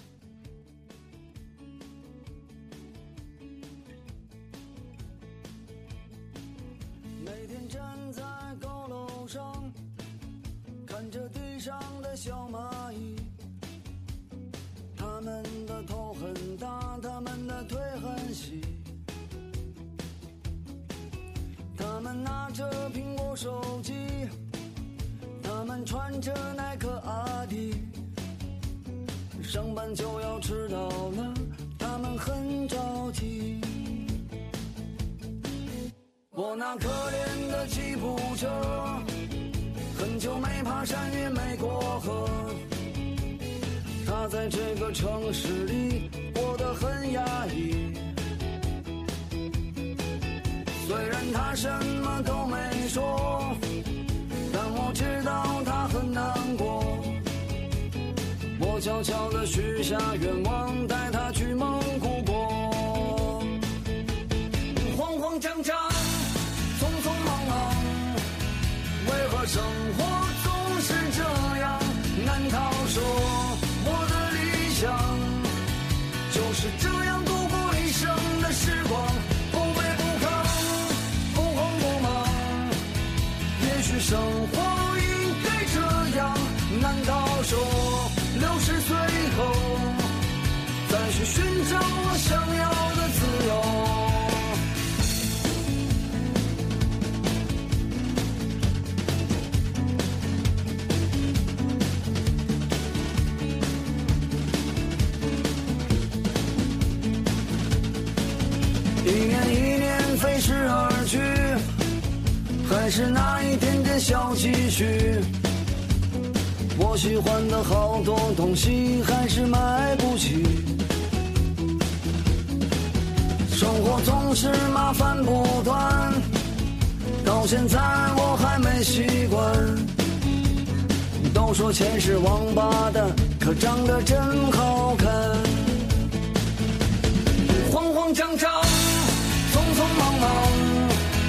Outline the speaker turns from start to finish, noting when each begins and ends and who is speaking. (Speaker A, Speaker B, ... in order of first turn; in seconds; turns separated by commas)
Speaker A: 7.2-9.8, Speaker A: 10.8-13.4, Speaker A: 14.9-18.9, Speaker A: 21.7-24.3, Speaker A: 25.4-28.0, Speaker A: 29.3-34.2, Speaker A: 36.3-39.1, Speaker A: 39.9-42.6, Speaker A: 44.0-48.1, Speaker A: 50.8-53.6, Speaker A: 54.5-57.2, Speaker A: 58.5-63.6, Speaker A: 64.7-68.2, Speaker A: 69.0-75.6, Speaker A: 76.3-82.8, Speaker A: 83.5-90.1, Speaker A: 90.8-94.6, Speaker A: 109.0-111.6, Speaker A: 112.6-115.3, Speaker A: 116.7-120.8, Speaker A: 123.5-126.3, Speaker A: 127.2-129.9, Speaker A: 131.2-135.9, Speaker A: 137.4-141.0